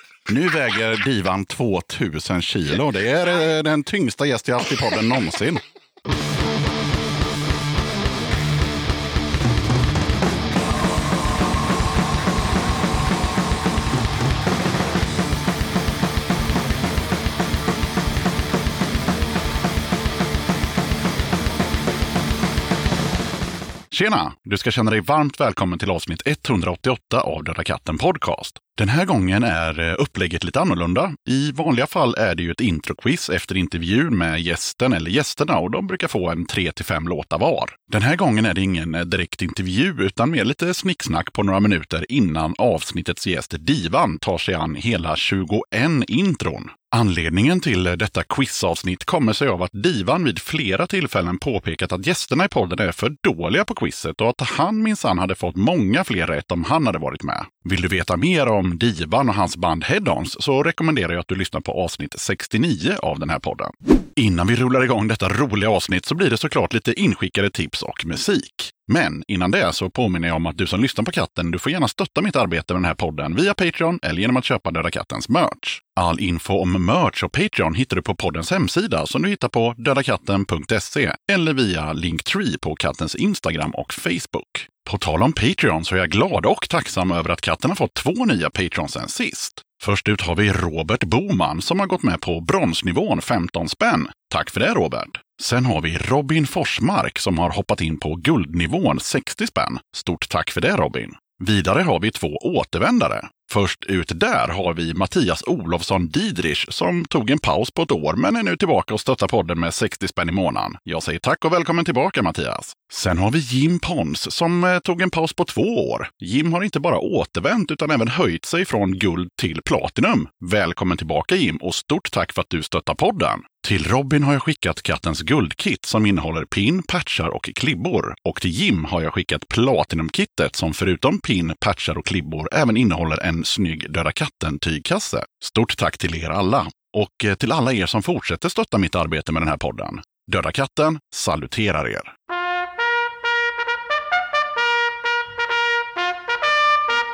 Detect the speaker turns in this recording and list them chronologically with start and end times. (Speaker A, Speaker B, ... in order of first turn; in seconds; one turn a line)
Speaker A: 0.3-5.6
Speaker A: 23.9-142.1